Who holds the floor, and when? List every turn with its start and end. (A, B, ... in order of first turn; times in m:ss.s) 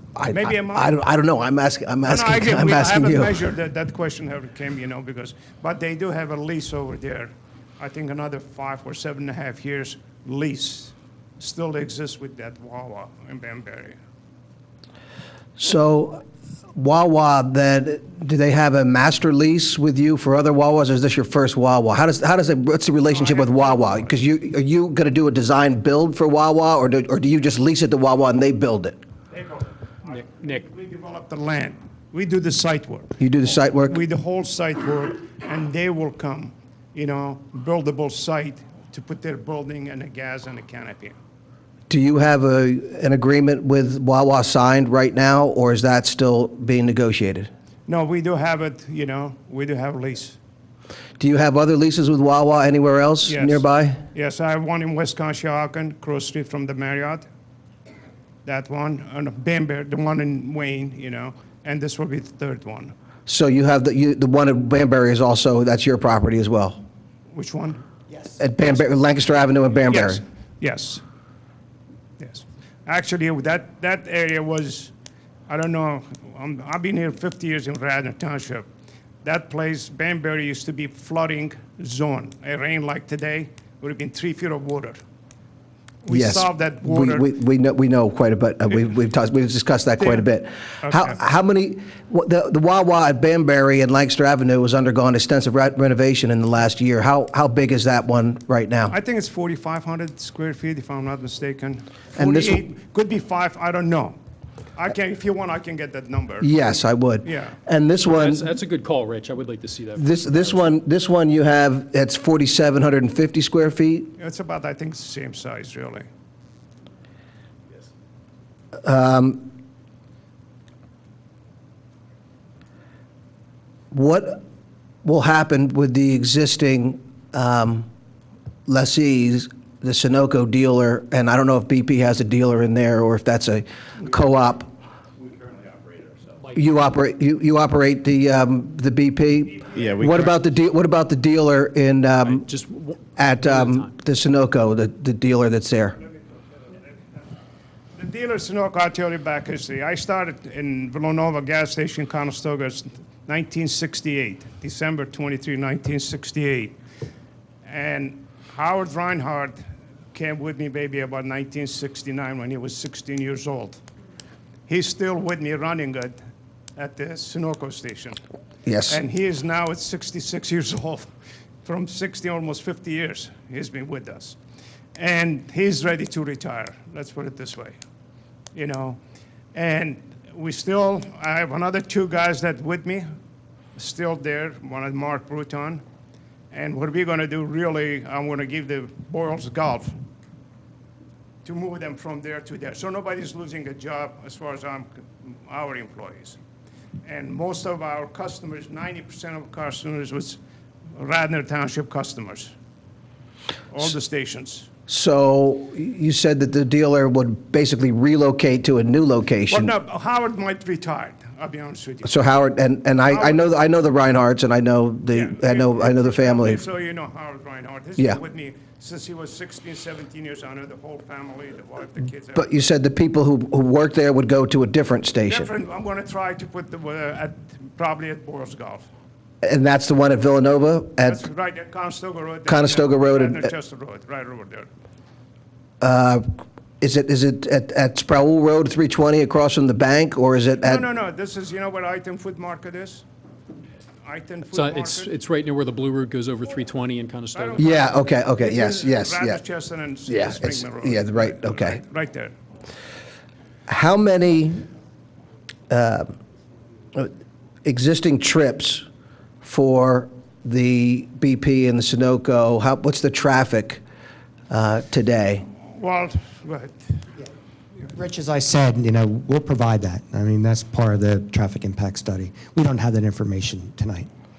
0:00.1-0:03.4 A
0:00.2-0:00.9 B
0:02.0-0:14.0 B
0:15.6-0:16.2 A
0:16.7-0:29.0 A
0:23.1-0:24.1 B
0:29.3-0:33.2 B
0:30.2-0:30.6 C
0:33.2-0:34.0 A
0:33.8-0:41.2 B
0:41.9-0:47.5 A
0:47.9-0:50.4 B
0:51.2-0:54.0 A
0:53.2-0:57.2 B
0:58.4-1:02.9 B
1:03.2-1:06.8 A
1:07.3-1:07.8 B
1:08.4-1:10.2 A
1:09.8-1:11.0 B
1:12.2-1:14.9 B
1:15.5-1:18.7 B
1:19.2-1:25.0 B
1:26.0-1:27.3 B
1:26.1-1:38.9 A
1:30.0-1:30.2 B
1:30.8-1:31.2 B
1:38.9-1:44.2 B
1:42.2-1:42.7 A
1:44.8-1:46.5 B
1:46.4-1:48.5 A
1:47.2-1:47.6 B
1:48.0-1:50.5 C
1:50.0-1:54.1 A
1:54.2-1:56.0 B
1:58.8-1:59.5 A
2:03.9-2:04.4 A
2:05.0-2:07.9 A
2:08.7-2:14.7 A
2:16.5-2:22.4 A
2:22.2-2:23.9 C
2:23.2-2:26.0 A
2:28.0-2:36.7 B
2:37.6-2:39.6 B
2:40.1-2:43.8 B
2:44.7-2:46.2 B
2:46.8-2:48.2 B
2:48.6-2:49.0 A
2:48.9-2:51.1 B
2:51.6-2:54.4 B
2:54.9-2:57.7 B
2:58.5-2:59.0 B
2:59.5-3:03.0 B
3:03.8-3:05.8 B
3:06.5-3:09.9 B
3:11.4-3:16.4 B
3:17.0-3:20.4 B
3:20.9-3:22.5 B
3:23.7-3:24.7 B
3:24.9-3:29.7 A
3:29.5-3:32.2 B
3:32.0-3:36.6 A
3:33.1-3:33.5 B
3:35.1-3:42.5 B
3:42.3-3:45.5 A
3:45.3-3:48.8 B
3:49.4-3:51.2 A
3:51.0-3:54.7 B
3:52.4-3:53.5 A
3:55.8-3:56.2 A
3:56.8-4:00.8 A
4:00.6-4:03.0 B
4:04.0-4:05.1 B
4:04.5-4:08.0 C
4:07.3-4:12.3 B
4:07.6-4:09.4 A
4:10.1-4:11.8 A
4:13.7-4:14.6 A
4:15.7-4:16.1 A
4:17.6-4:18.8 A
4:19.4-4:23.8 A
4:24.5-4:25.4 A
4:25.6-4:26.8 B
4:27.9-4:34.1 D